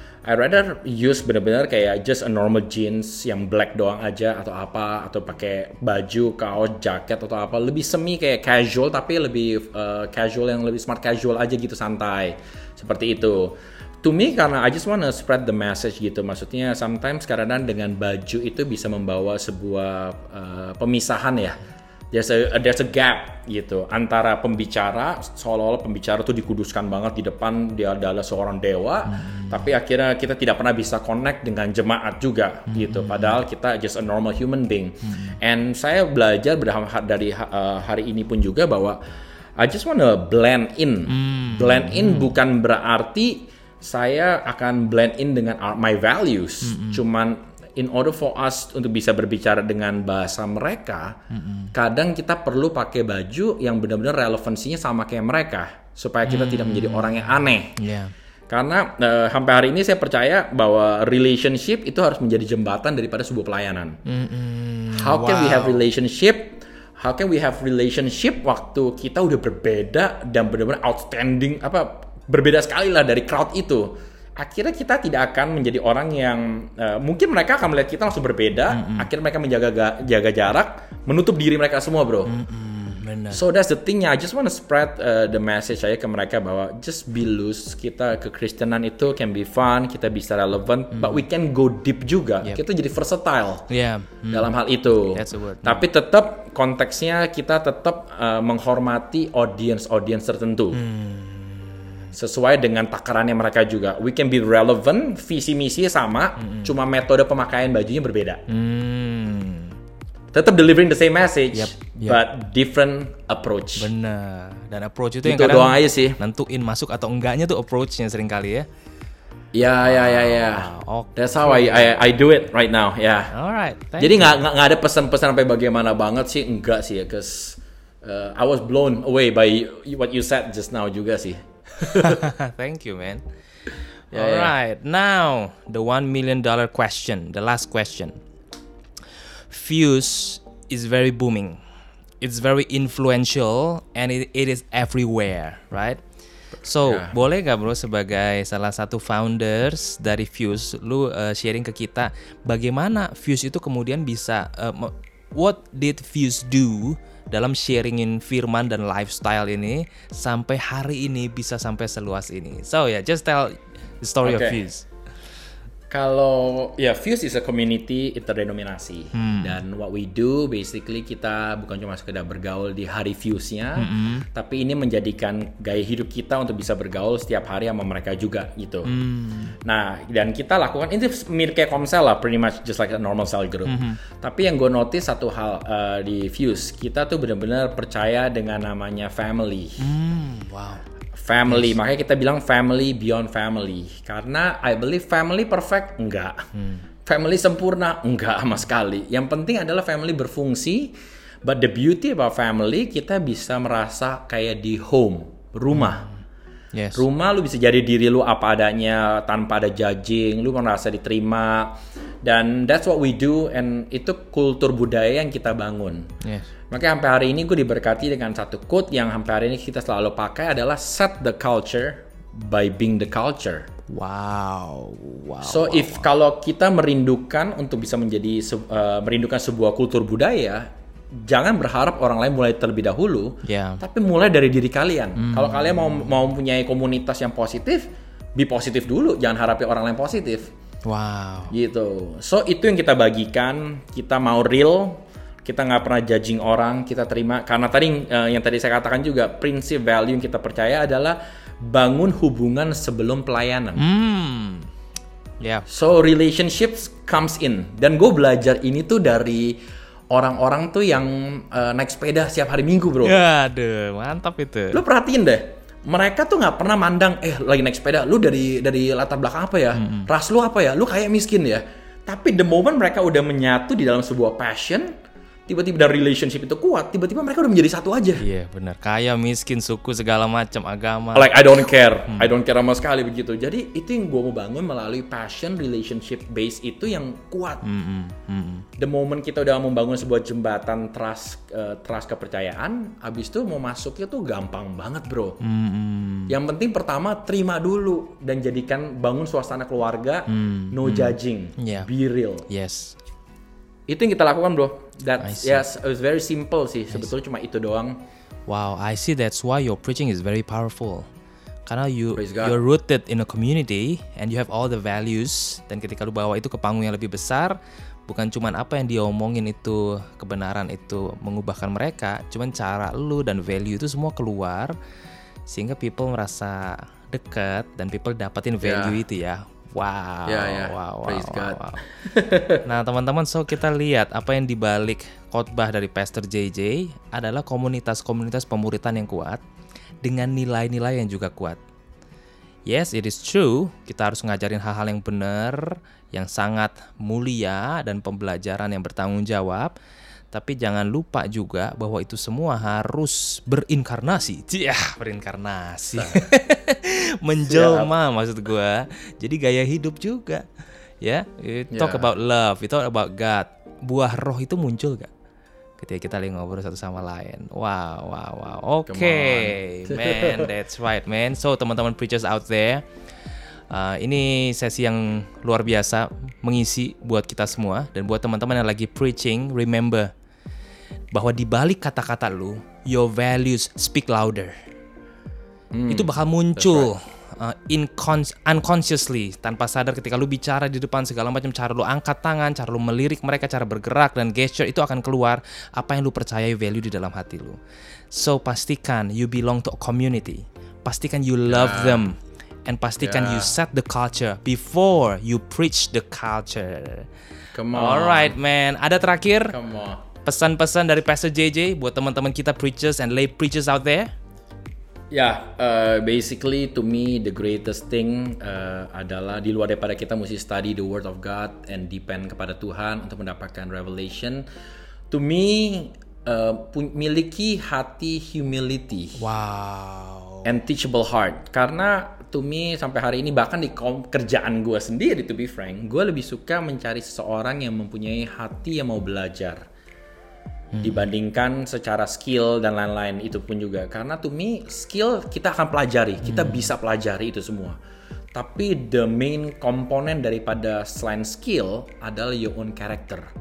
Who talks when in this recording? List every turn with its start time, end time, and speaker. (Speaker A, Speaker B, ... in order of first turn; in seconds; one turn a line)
Speaker A: 0.3-21.6
Speaker A: 22.1-39.0
Speaker B: 29.1-29.7
Speaker B: 32.7-33.4
Speaker B: 35.1-35.4
Speaker A: 39.6-51.2
Speaker B: 41.1-42.3
Speaker B: 46.6-47.0
Speaker B: 51.3-51.7
Speaker A: 51.7-57.8
Speaker B: 56.2-58.1
Speaker A: 58.5-64.0
Speaker B: 64.1-65.9
Speaker A: 64.9-82.3
Speaker B: 78.7-79.1
Speaker B: 82.3-83.4
Speaker A: 83.3-93.7
Speaker B: 91.0-91.2
Speaker B: 93.7-95.8
Speaker A: 94.3-100.8
Speaker B: 100.7-102.1
Speaker A: 102.1-108.4
Speaker B: 106.4-106.7
Speaker B: 108.5-109.8
Speaker A: 110.3-113.9
Speaker B: 111.5-112.2
Speaker B: 113.8-118.7
Speaker A: 115.2-116.2
Speaker A: 119.5-123.3
Speaker B: 119.8-122.0
Speaker B: 123.3-124.4
Speaker A: 124.0-132.2
Speaker B: 131.8-133.2
Speaker B: 134.1-138.2
Speaker A: 134.1-134.6
Speaker B: 139.5-141.6
Speaker B: 142.2-146.0
Speaker B: 146.6-164.9
Speaker A: 146.8-147.2
Speaker A: 164.2-164.6
Speaker A: 165.9-178.9
Speaker B: 169.1-169.6
Speaker B: 173.8-174.3
Speaker B: 178.9-179.6
Speaker A: 179.6-189.9
Speaker B: 183.7-184.0
Speaker B: 189.8-190.8
Speaker A: 191.2-196.4
Speaker B: 196.6-196.8
Speaker A: 197.1-206.1
Speaker B: 205.7-206.1
Speaker B: 206.7-207.0
Speaker A: 206.9-216.1
Speaker A: 216.7-223.7
Speaker B: 223.9-226.1
Speaker A: 225.4-240.5
Speaker B: 233.4-233.8
Speaker B: 235.2-236.1
Speaker B: 240.8-241.5
Speaker A: 241.5-253.8
Speaker B: 253.8-254.7
Speaker B: 255.4-255.7
Speaker A: 255.7-259.6
Speaker A: 260.1-263.2
Speaker B: 263.0-264.8
Speaker A: 264.7-274.9
Speaker B: 269.8-270.1
Speaker A: 275.5-278.2
Speaker B: 278.2-281.3
Speaker A: 281.1-287.6
Speaker B: 282.1-282.3
Speaker B: 287.6-288.7
Speaker A: 288.8-295.4
Speaker B: 295.4-296.4
Speaker A: 296.3-302.5
Speaker B: 300.3-301.9
Speaker B: 302.5-303.0
Speaker A: 303.9-308.0
Speaker B: 305.2-305.6
Speaker B: 308.5-311.1
Speaker B: 311.7-324.8
Speaker A: 312.2-312.6
Speaker B: 325.5-331.9
Speaker A: 328.6-329.0
Speaker A: 330.3-332.6
Speaker B: 332.6-339.4
Speaker B: 340.0-341.6
Speaker B: 342.7-349.7
Speaker B: 350.3-360.5
Speaker A: 356.0-356.3
Speaker A: 357.5-357.9
Speaker B: 361.0-365.1
Speaker A: 361.7-362.1
Speaker B: 365.8-372.9
Speaker A: 368.9-370.5
Speaker B: 373.7-380.1
Speaker B: 381.1-384.6
Speaker A: 385.7-386.9
Speaker B: 385.9-397.6
Speaker B: 398.1-407.1
Speaker A: 401.5-402.1
Speaker A: 403.0-403.5
Speaker A: 407.5-408.3
Speaker B: 407.7-409.6
Speaker A: 409.5-410.0
Speaker B: 410.2-414.1
Speaker A: 415.1-424.5
Speaker A: 425.1-429.2
Speaker B: 429.2-430.5
Speaker A: 430.4-439.6
Speaker B: 440.7-441.0
Speaker A: 440.8-447.8
Speaker B: 446.2-446.7
Speaker A: 448.3-453.3